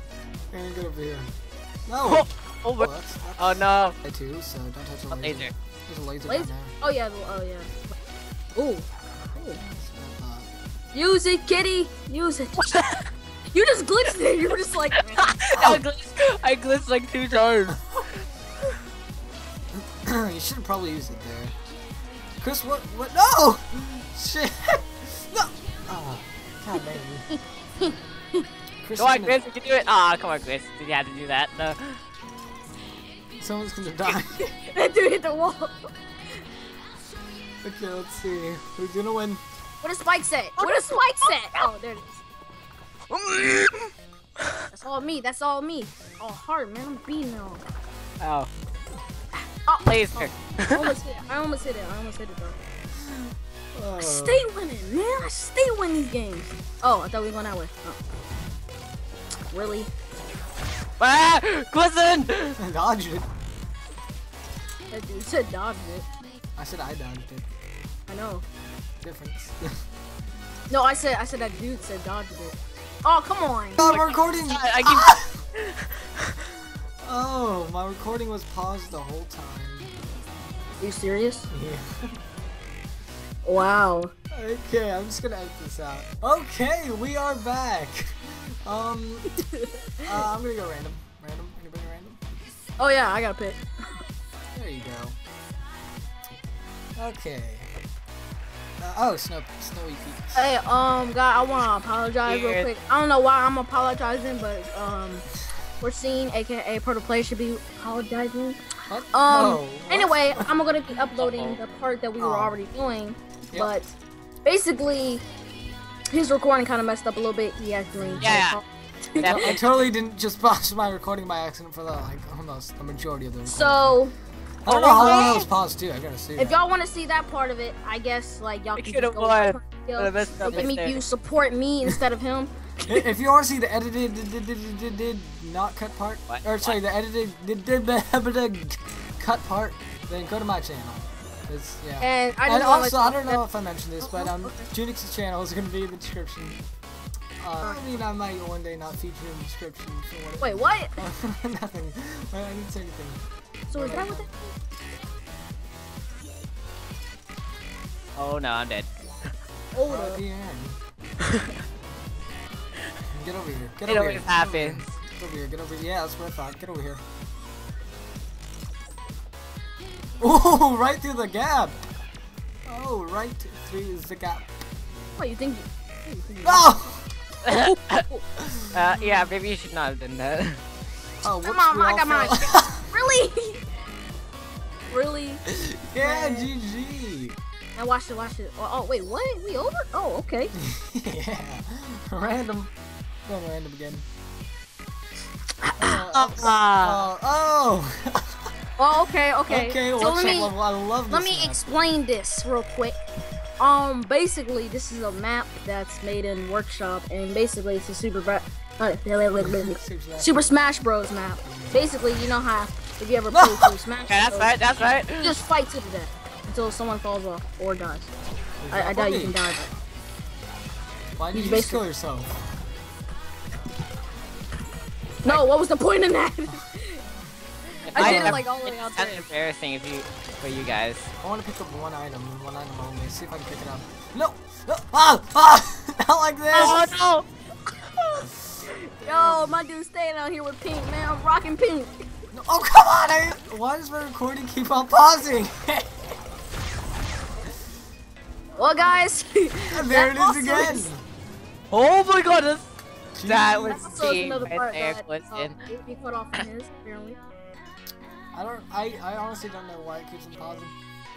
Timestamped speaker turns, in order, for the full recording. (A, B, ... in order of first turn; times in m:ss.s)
0:00.5-0:01.3 A
0:01.9-0:06.7 A
0:02.0-0:04.0 B
0:05.1-0:05.5 B
0:06.3-0:07.8 C
0:08.6-0:09.6 C
0:09.4-0:10.5 A
0:10.9-0:12.7 C
0:12.6-0:13.0 B
0:13.5-0:15.4 C
0:15.2-0:17.9 B
0:15.5-0:15.8 A
0:19.8-0:21.6 A
0:22.4-0:27.3 A
0:27.3-0:28.4 C
0:28.8-0:29.5 A
0:29.0-0:32.0 B
0:33.4-0:34.4 A
0:34.4-0:35.8 C
0:37.6-0:39.4 A
0:39.8-0:42.2 C
0:43.1-0:43.9 B
0:44.7-0:47.6 C
0:48.2-0:48.5 B
0:49.6-0:52.6 C
0:49.9-0:51.0 B
0:53.1-0:54.5 A
0:54.0-0:58.0 C
0:59.5-0:59.9 C
1:01.0-1:02.6 B
1:02.6-1:03.3 A
1:04.9-1:06.1 C
1:06.6-1:07.5 A
1:08.1-1:08.4 C
1:09.0-1:09.7 A
1:10.7-1:14.0 C
1:13.8-1:15.4 A
1:13.8-1:16.5 B
1:17.0-1:19.9 A
1:20.8-1:21.5 C
1:21.5-1:22.1 A
1:23.4-1:24.1 C
1:24.3-1:29.4 A
1:30.0-1:32.2 A
1:32.8-1:33.6 C
1:34.5-1:35.2 A
1:37.0-1:37.7 A
1:38.8-1:40.5 A
1:40.4-1:45.2 C
1:42.2-1:42.7 B
1:45.8-1:48.6 C
1:48.9-1:50.5 A
1:49.1-1:53.9 C
1:51.2-1:51.6 B
1:52.2-1:52.6 A
1:54.4-1:55.2 C
1:56.1-1:59.6 C
1:58.0-1:58.3 A
1:58.2-1:58.6 B
1:59.2-1:59.6 B
1:59.2-2:04.0 A
2:03.5-2:04.2 C
2:04.6-2:06.6 A
2:04.7-2:05.5 C
2:04.9-2:05.4 B
2:06.4-2:12.5 C
2:08.8-2:11.0 B
2:10.5-2:10.8 A
2:12.9-2:26.6 A
2:16.3-2:16.8 B
2:22.0-2:23.4 C
2:24.0-2:24.7 C
2:27.4-2:33.2 A
2:27.6-2:28.0 C
2:30.4-2:31.0 C
2:33.7-2:34.4 C
2:33.7-2:34.3 A
2:38.2-2:39.3 B
2:39.7-2:40.2 C
2:39.8-2:40.8 A
2:41.2-2:41.5 B
2:43.1-2:47.0 A
2:43.9-2:44.8 B
2:50.2-2:51.8 A
2:52.6-2:54.5 A
2:55.2-2:56.8 C
2:56.4-2:57.1 A
2:57.4-2:58.0 B
2:57.5-2:58.2 C
2:58.4-2:58.7 A
2:58.7-3:00.6 B
3:01.2-3:02.9 A
3:01.4-3:03.6 C
3:04.9-3:05.4 C
3:05.5-3:07.4 A
3:06.0-3:06.5 C
3:07.8-3:10.5 C
3:10.6-3:12.7 A
3:13.3-3:14.0 A
3:15.8-3:18.4 A
3:15.8-3:17.0 B
3:18.8-3:20.5 C
3:19.5-3:21.7 A
3:21.1-3:23.0 C
3:23.6-3:34.5 C
3:29.4-3:30.5 A
3:31.4-3:32.0 A
3:33.3-3:33.7 A
3:34.1-3:35.4 B
3:35.2-3:38.1 C
3:38.6-3:39.7 A
3:38.7-3:39.6 C
3:41.2-3:42.3 A
3:41.3-3:41.8 C
3:45.2-3:47.0 C
3:47.9-3:51.1 B
3:47.9-3:49.3 C
3:48.0-3:48.4 A
3:51.2-3:56.8 A
3:56.5-3:56.9 C
3:56.6-3:57.3 B
3:57.9-4:01.9 C
3:59.0-3:59.6 A
4:02.3-4:06.0 A
4:08.6-4:10.9 C
4:09.7-4:11.0 A
4:11.7-4:12.7 B
4:13.2-4:13.8 A
4:13.2-4:15.6 B
4:13.7-4:17.2 C
4:18.3-4:20.8 A